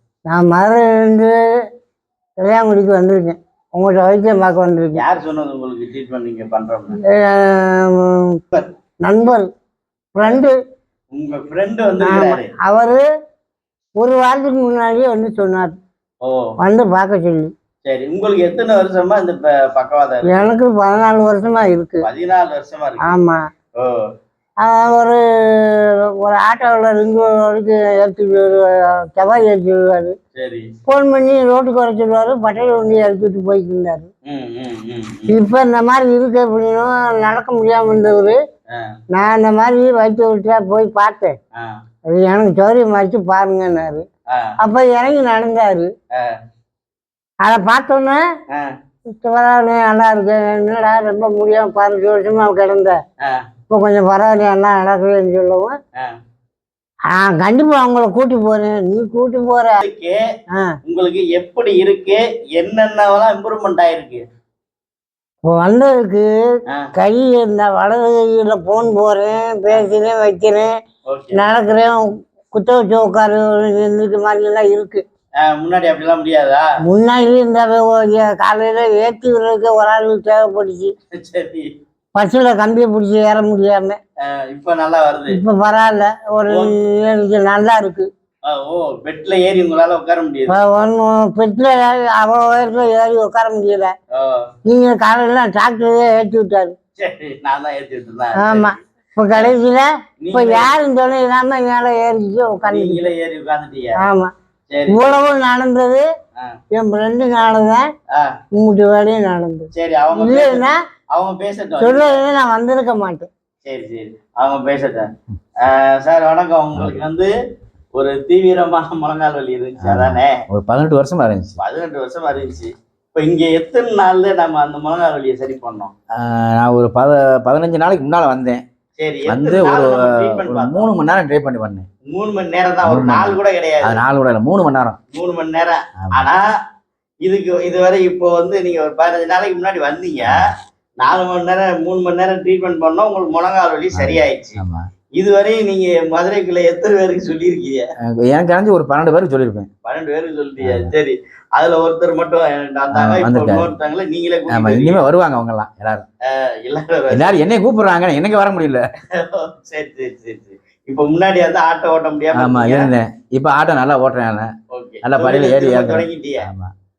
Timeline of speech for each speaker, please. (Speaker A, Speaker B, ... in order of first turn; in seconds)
Speaker A: 0.3-1.3, 2.4-5.0, 7.1-8.4, 9.0-9.5, 10.1-10.6, 12.0-13.0, 13.9-15.7, 16.6-17.5, 20.3-22.0, 23.0-23.4, 24.6-30.1, 30.9-34.1, 35.3-38.4, 39.1-41.3, 42.1-44.0, 44.6-45.9, 47.4-48.2, 49.1-53.0, 53.7-55.8, 57.1-59.8, 65.5-66.3, 67.0-70.7, 71.4-72.0, 72.5-75.0, 76.8-80.9, 82.2-84.0, 85.3-88.1, 90.5-93.9, 94.7-96.7, 98.4-103.1, 104.0-104.3, 104.9-106.0, 106.7-107.8, 108.5-110.8, 111.8-113.3
Speaker B: 5.0-7.0, 11.1-12.5, 16.2-16.5, 17.8-20.5, 22.0-23.1, 30.3-30.7, 34.2-35.4, 59.8-60.2, 60.9-64.2, 71.1-71.4, 75.4-76.7, 81.1-81.7, 84.2-85.4, 86.5-86.7, 88.5-90.6, 94.1-94.4, 97.0-98.8, 100.2-100.7, 102.6-104.0, 104.7-105.2, 109.7-112.2, 113.6-115.0, 115.6-117.3, 118.0-120.4, 121.6-125.9, 129.0-130.9, 132.1-134.0, 135.1-136.5, 137.2-140.4, 141.0-144.6, 145.2-147.8, 149.8-155.0, 156.3-157.4, 159.2-162.9, 164.7-166.4
Speaker C: 119.8-121.6, 126.2-128.6, 129.2-131.8, 132.8-135.0, 136.0-136.3, 143.9-144.8, 148.2-149.7, 150.6-150.9, 152.9-153.7, 154.5-156.0, 157.1-158.8, 162.3-164.5, 165.0-166.7